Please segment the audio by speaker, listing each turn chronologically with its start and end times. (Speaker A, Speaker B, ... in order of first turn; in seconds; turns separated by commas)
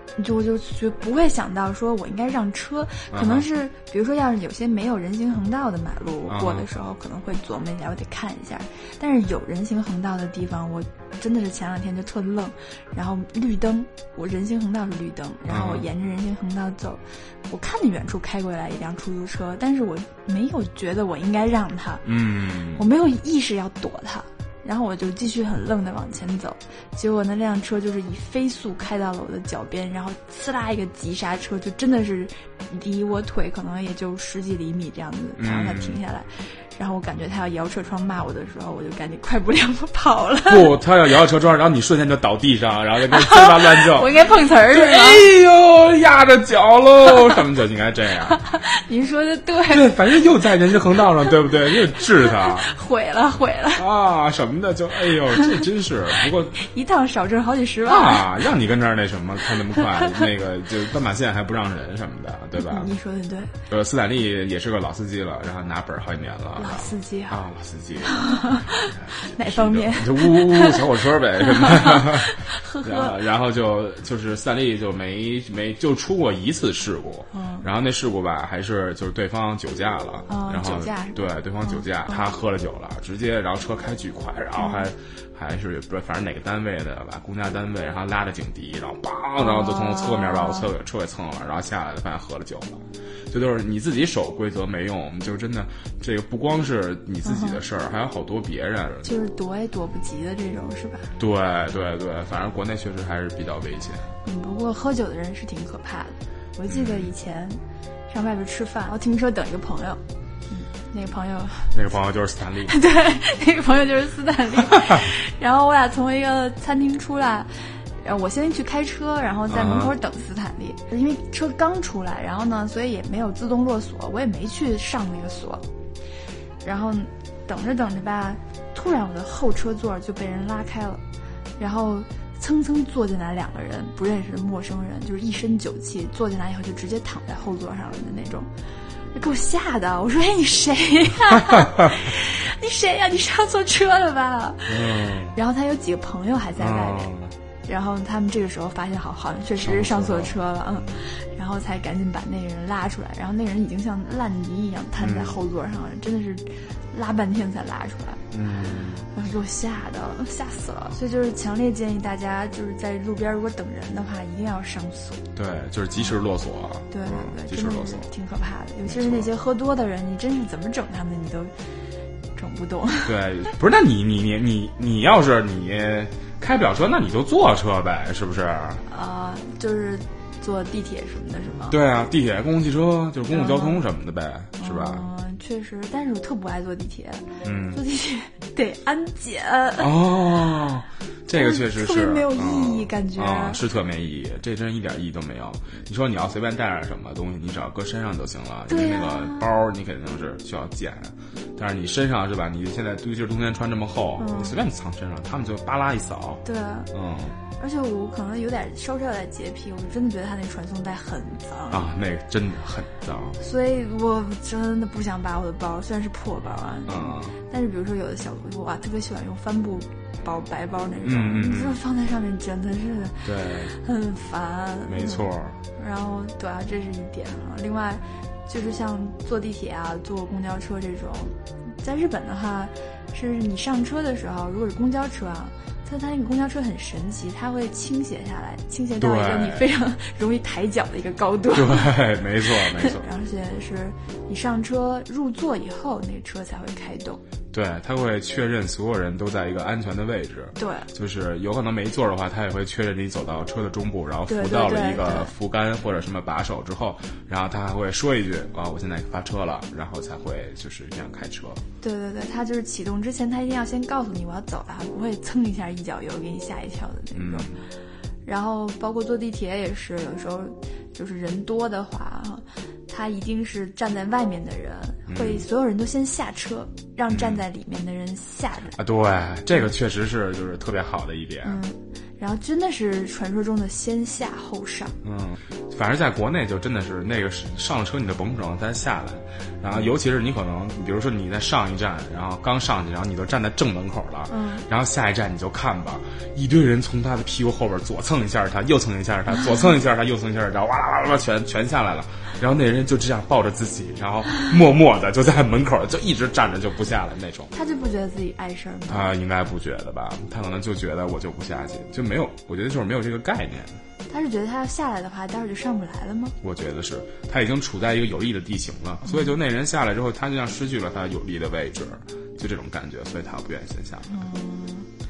Speaker A: 0.2-40.7, Speaker B: 3.1-3.5, Speaker B: 6.3-6.7, Speaker B: 15.5-15.8, Speaker B: 22.1-22.8, Speaker B: 35.4-36.0, Speaker B: 40.5-48.4, Speaker A: 43.1-45.3, Speaker A: 48.3-49.9, Speaker B: 49.7-52.7, Speaker A: 51.7-53.8, Speaker B: 53.8-56.5, Speaker A: 56.6-58.3, Speaker B: 57.9-62.9, Speaker A: 62.6-63.5, Speaker B: 63.7-99.1, Speaker A: 66.6-67.4, Speaker A: 68.0-73.2, Speaker A: 77.3-77.7, Speaker A: 80.3-82.2, Speaker A: 84.6-84.8, Speaker A: 89.4-90.7, Speaker A: 97.2-97.6, Speaker A: 99.0-101.1, Speaker B: 101.2-104.1, Speaker A: 104.2-111.8, Speaker B: 106.7-107.1, Speaker B: 111.7-112.8, Speaker A: 112.6-125.6, Speaker B: 119.5-119.9, Speaker A: 126.6-131.0, Speaker A: 131.6-138.5, Speaker A: 139.1-147.1, Speaker B: 144.7-145.3, Speaker B: 146.6-147.3, Speaker A: 147.7-158.2, Speaker B: 149.6-150.4, Speaker B: 155.0-155.4, Speaker B: 158.3-159.1, Speaker A: 159.1-165.2, Speaker B: 165.3-168.1, Speaker A: 166.9-171.5, Speaker B: 168.8-169.3, Speaker A: 172.3-173.2, Speaker B: 173.1-178.8, Speaker A: 178.9-181.8, Speaker B: 181.7-185.1, Speaker A: 183.3-183.8, Speaker A: 184.6-189.9, Speaker B: 187.4-187.8, Speaker B: 189.8-206.4, Speaker A: 191.3-193.6, Speaker A: 198.7-199.5, Speaker A: 204.2-204.6, Speaker A: 206.4-206.9, Speaker B: 206.9-207.3, Speaker A: 207.6-211.9, Speaker B: 211.7-213.4, Speaker A: 213.4-247.2, Speaker B: 216.9-217.3, Speaker B: 221.0-221.8, Speaker B: 223.2-223.7, Speaker B: 224.9-225.6, Speaker B: 239.0-239.6, Speaker B: 241.5-243.0, Speaker B: 247.5-261.6, Speaker A: 250.6-250.9, Speaker A: 254.3-255.3, Speaker A: 261.8-267.5, Speaker B: 267.1-267.6, Speaker A: 268.2-278.8, Speaker B: 275.1-275.4, Speaker B: 277.1-277.4, Speaker B: 278.8-281.6, Speaker A: 281.4-284.9, Speaker B: 285.0-307.5, Speaker A: 294.3-294.6, Speaker A: 307.5-309.1, Speaker B: 308.9-313.8, Speaker A: 314.1-316.4, Speaker B: 316.4-324.1, Speaker A: 319.1-319.3, Speaker A: 324.1-324.9